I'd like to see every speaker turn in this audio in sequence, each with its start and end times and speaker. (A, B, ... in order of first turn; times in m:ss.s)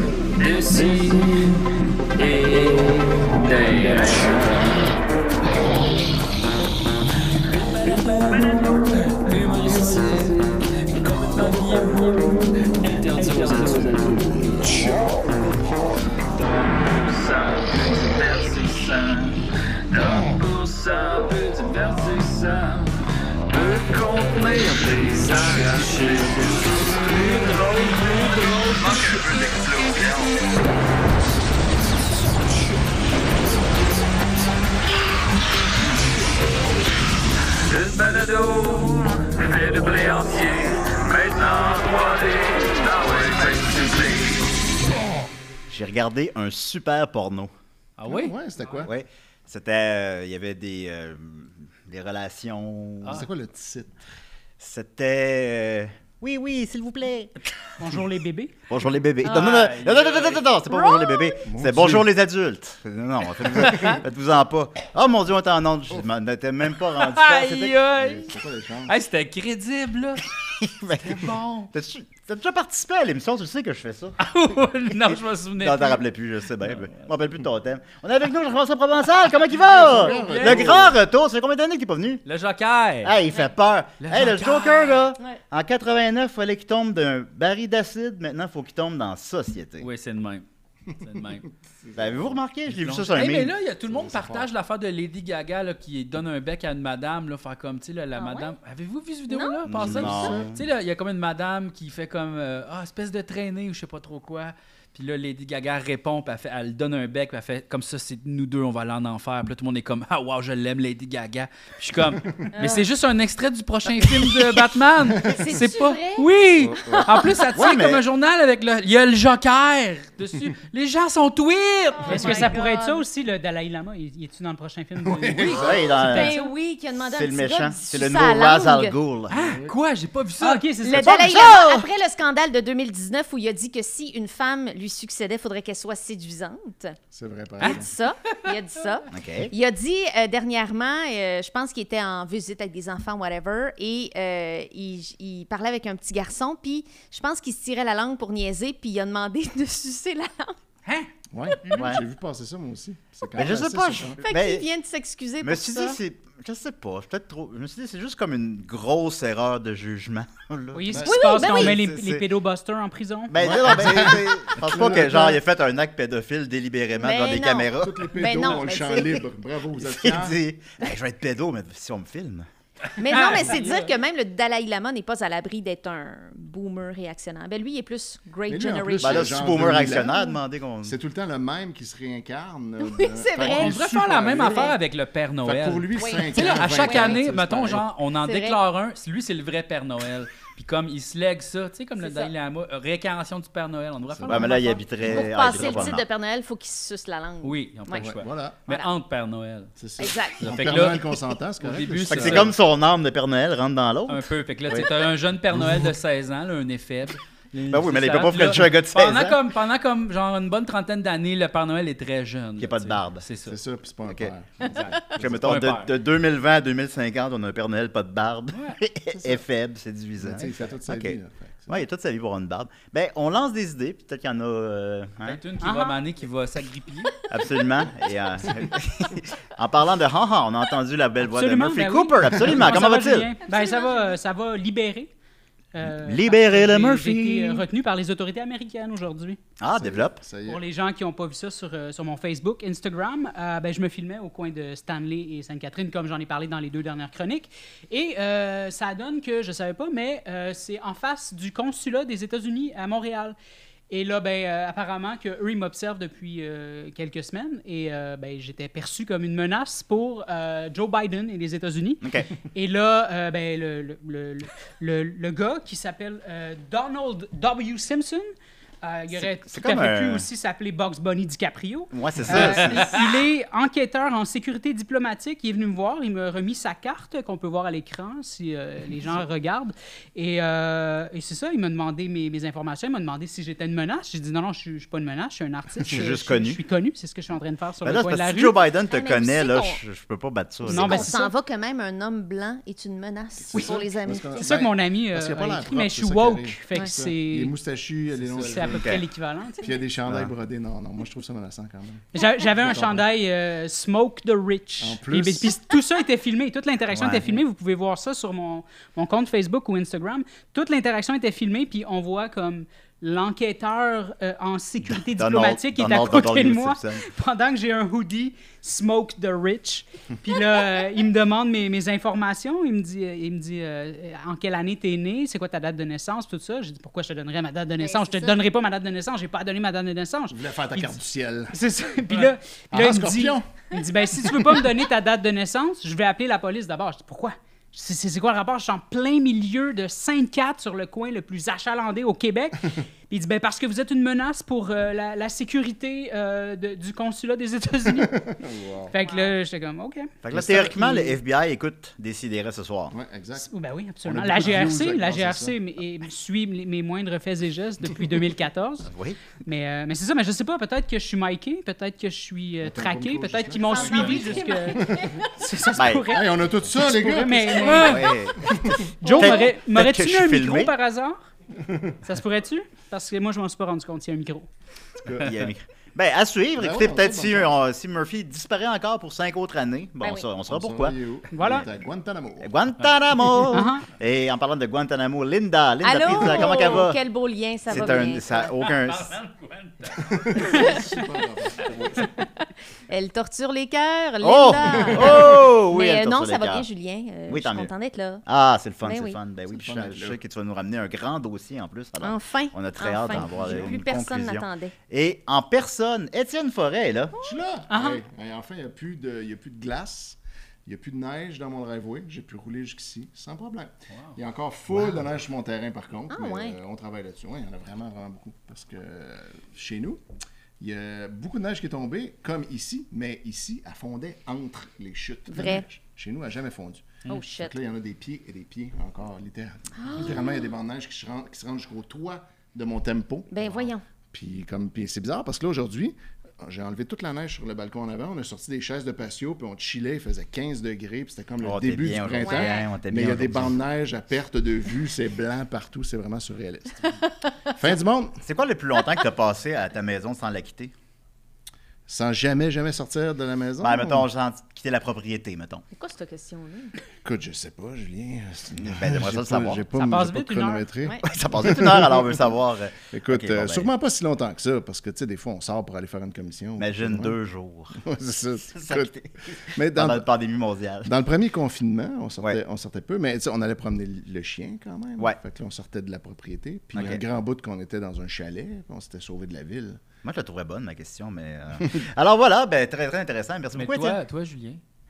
0:00.4-0:01.5 A
0:00.4-0:01.5 B
0:02.2-0:04.6 A
0:02.3-0:04.5 B
0:07.7-0:14.0 A
0:07.9-0:10.4 B
0:11.7-0:12.0 B
0:13.1-0:15.0 B
0:16.4-0:19.4 A
0:19.9-0:22.9 A
0:20.0-0:20.3 B
0:23.5-0:30.3 A
0:23.6-0:30.3 B
0:37.7-0:44.0 A
0:37.8-0:44.3 B
0:45.7-0:47.5 C
0:48.0-0:48.4 A
0:48.1-0:48.9 D
0:48.8-0:53.2 C
0:53.1-0:53.9 D
0:54.6-0:57.4 C
0:57.8-0:58.5 E
0:58.7-1:07.8 C
0:59.2-1:00.5 A
1:00.7-1:01.4 F
1:01.4-1:02.1 D
1:03.6-1:04.0 A
1:06.9-1:10.3 A
1:07.9-1:09.0 D
1:10.5-1:14.2 C
1:10.9-1:11.7 A
1:14.2-1:16.0 A
1:14.9-1:22.2 C
1:16.6-1:17.1 A
1:19.6-1:21.0 D
1:19.8-1:20.9 A
1:22.2-1:23.2 A
1:23.0-1:29.9 C
1:24.0-1:25.0 A
1:29.8-1:30.4 A
1:31.0-1:31.5 A
1:31.8-1:32.4 D
1:32.0-1:33.5 C
1:32.7-2:02.4 A
1:33.9-1:34.5 D
1:38.2-1:38.5 F
1:39.3-1:40.4 F
1:39.7-1:40.6 C
1:39.8-1:40.6 D
1:52.5-1:52.8 F
1:55.2-1:57.4 F
1:56.6-1:57.1 D
1:57.5-1:58.0 C
2:02.0-2:03.0 F
2:02.1-2:06.5 E
2:05.0-2:05.9 D
2:05.5-2:06.4 C
2:05.8-2:09.0 F
2:07.1-2:09.4 C
2:09.3-2:10.7 A
2:09.4-2:09.8 D
2:10.4-2:11.2 E
2:10.8-2:17.0 F
2:10.9-2:11.9 C
2:17.1-2:17.9 D
2:17.6-2:30.6 F
2:19.1-2:19.5 C
2:31.3-2:34.2 D
2:31.5-2:31.8 F
2:31.6-2:32.0 E
2:31.7-2:32.0 C
2:33.3-2:34.7 C
2:34.2-2:36.0 F
2:35.4-2:42.3 C
2:40.7-2:43.3 E
2:40.9-2:41.2 D
2:41.1-2:41.8 F
2:43.3-2:48.5 C
2:43.4-2:45.4 D
2:47.0-2:49.2 F
2:47.8-2:50.4 D
2:49.8-2:52.5 C
2:53.0-3:00.0 F
2:53.2-2:53.6 A
2:58.5-3:00.3 D
2:59.0-3:00.9 C
3:00.8-3:04.8 D
3:02.8-3:03.8 F
3:03.4-3:14.9 A
3:04.4-3:04.7 F
3:05.4-3:07.9 D
3:06.0-3:07.2 F
3:08.2-3:08.6 F
3:12.0-3:12.3 F
3:14.1-3:14.5 D
3:14.3-3:16.0 C
3:15.0-3:18.1 F
3:15.1-3:15.9 D
3:17.4-3:19.7 A
3:18.0-3:18.6 D
3:19.8-3:22.6 D
3:20.0-3:21.0 F
3:20.4-3:21.1 A
3:21.6-3:22.6 A
3:22.1-3:24.9 C
3:24.1-3:33.6 A
3:25.5-3:25.9 D
3:27.7-3:29.4 C
3:32.6-3:33.3 C
3:33.5-3:35.5 D
3:34.6-3:35.9 A
3:35.2-3:41.2 C
3:38.5-3:38.8 A
3:39.1-3:39.4 D
3:40.2-3:41.8 D
3:41.7-3:45.4 C
3:45.2-3:47.2 A
3:45.6-3:46.0 E
3:47.3-3:53.3 C
3:51.2-3:55.1 E
3:53.4-3:54.2 F
3:55.7-3:59.4 E
3:55.9-3:57.6 C
3:59.6-4:00.2 C
3:59.7-4:00.6 D
4:00.5-4:13.4 E
4:13.9-4:48.6 E
4:22.0-4:22.3 C
4:29.2-4:30.3 C
4:31.9-4:33.0 C
4:32.4-4:33.0 A
4:45.8-4:46.6 C
4:47.8-4:51.1 C
4:48.9-4:49.8 F
4:50.7-4:51.3 E
4:50.7-4:54.4 F
4:53.5-4:59.0 D
4:53.5-4:57.5 E
4:58.3-4:59.7 E
4:58.6-4:59.1 C
4:59.6-5:02.1 D
5:02.1-5:31.0 E
5:02.2-5:02.4 F
5:02.6-5:03.0 D
5:04.8-5:05.6 D
5:06.9-5:07.4 C
5:14.9-5:17.0 C
5:27.8-5:28.4 F
5:30.3-5:31.6 D
5:31.5-5:48.2 E
5:32.7-5:33.4 D
5:47.9-5:48.9 D
5:48.9-5:50.1 E
5:49.0-5:49.4 F
5:50.2-5:52.9 C
5:50.3-5:51.2 D
5:52.9-5:53.5 D
5:53.4-6:08.1 E
5:54.0-5:55.6 D
5:58.8-5:59.3 C
6:02.6-6:04.2 D
6:03.6-6:05.2 F
6:04.8-6:05.1 D
6:05.8-6:06.2 C
6:06.0-6:08.8 D
6:07.6-6:10.8 C
6:09.0-6:11.3 E
6:09.0-6:09.4 F
6:11.6-6:12.0 D
6:12.0-6:14.5 E
6:15.0-6:15.3 D
6:15.1-6:21.6 C
6:16.6-6:17.5 D
6:20.0-6:20.3 F
6:20.5-6:22.5 D
6:21.3-6:21.6 E
6:22.4-6:27.0 C
6:23.5-6:23.9 E
6:25.8-6:28.5 F
6:27.7-6:29.2 C
6:28.4-6:30.4 A
6:30.0-6:32.1 D
6:30.5-6:30.8 F
6:32.9-6:38.2 F
6:34.2-6:36.7 C
6:34.6-6:35.4 D
6:37.3-6:37.7 C
6:38.3-6:47.2 C
6:38.8-6:39.2 F
6:39.5-6:40.2 D
6:42.0-6:44.8 F
6:43.1-6:43.8 D
6:47.2-7:00.0 D
6:47.7-6:48.0 E
6:53.9-6:54.2 A
6:56.1-6:56.6 F
7:00.6-7:13.6 D
7:05.3-7:05.6 F
7:07.1-7:07.6 F
7:09.8-7:10.4 F
7:13.3-7:13.8 F
7:14.1-7:28.2 D
7:21.4-7:23.6 C
7:22.2-7:22.7 F
7:27.0-7:27.3 F
7:28.2-7:30.7 C
7:31.9-7:34.1 D
7:33.6-7:35.6 C
7:35.7-7:36.7 F
7:37.0-7:42.3 D
7:38.5-7:39.9 C
7:39.8-7:40.7 E
7:41.0-7:43.7 C
7:42.9-7:47.2 D
7:46.6-7:47.9 C
7:47.8-7:48.9 D
7:48.5-7:50.9 C
7:49.5-7:50.1 D
7:50.8-7:59.8 D
7:56.7-7:57.0 C
8:00.0-8:04.0 C
8:03.5-8:04.6 A